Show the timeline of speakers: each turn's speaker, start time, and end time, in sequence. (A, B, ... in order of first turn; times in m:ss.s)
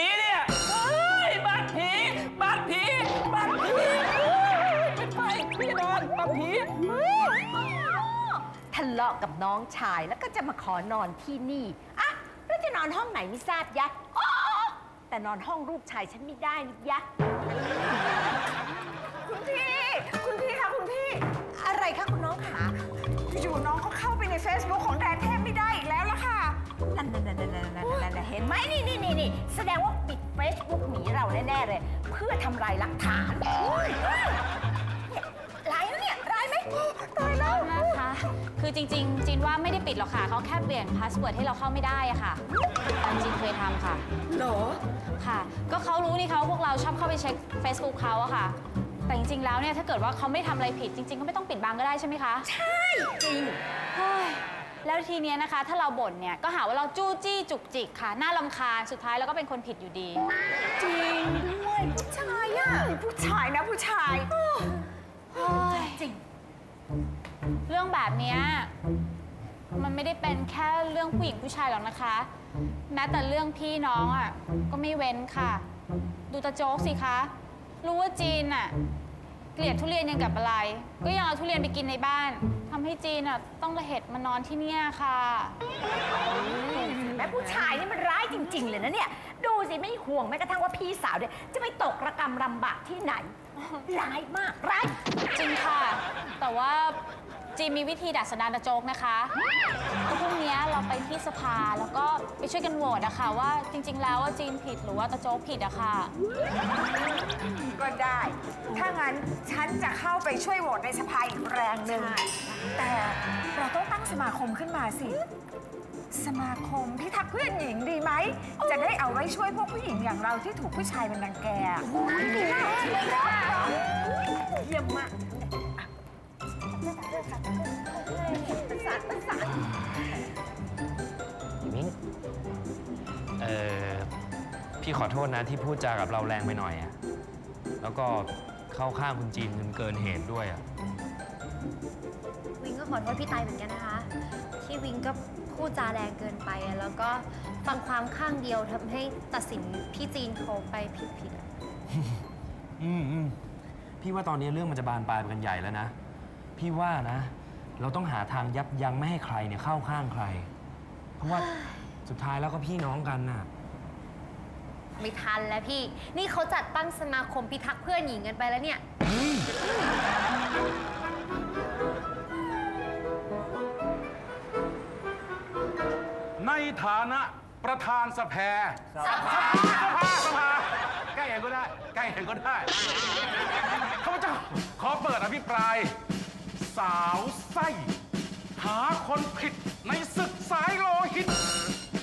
0:03.6-0:04.1 A
0:04.8-0:17.1 A
0:19.3-0:21.2 B
0:19.6-0:19.9 A
0:21.5-0:22.8 A
0:23.3-0:26.6 B
0:26.9-0:34.4 A
0:35.1-0:37.9 A
0:37.3-0:42.4 C
0:43.0-0:44.0 C
0:44.4-0:44.7 A
0:45.2-0:48.6 C
0:49.1-0:52.5 C
0:52.5-0:53.6 A
0:53.9-1:00.2 C
1:01.0-1:02.8 A
1:01.9-1:04.3 B
1:05.3-1:06.1 C
1:05.5-1:06.2 A
1:07.7-1:08.7 C
1:09.7-1:12.3 C
1:12.9-1:15.6 C
1:16.3-1:18.8 C
1:19.6-1:25.6 C
1:26.3-1:35.0 A
1:35.3-1:37.0 C
1:37.6-1:39.3 C
1:40.1-1:46.1 C
1:47.7-1:52.2 B
1:51.8-1:52.6 A
1:52.8-1:55.2 B
1:56.1-2:01.8 B
1:58.6-1:58.9 A
2:01.8-2:03.8 A
2:04.5-2:05.9 A
2:06.8-2:09.5 A
2:11.6-2:11.9 D
2:13.4-2:14.1 D
2:14.8-2:16.9 D
2:17.8-2:20.6 D
2:22.6-2:24.1 E
2:24.6-2:31.5 E
2:32.8-2:33.4 D
2:34.0-2:35.9 D
2:36.6-2:40.5 D
2:41.2-2:41.5 D
2:41.2-2:41.6 E
2:42.1-2:43.5 D
2:45.0-2:48.8 E
2:56.4-3:02.7 F
3:04.0-3:05.9 F
3:06.6-3:07.9 F
3:08.6-3:11.3 F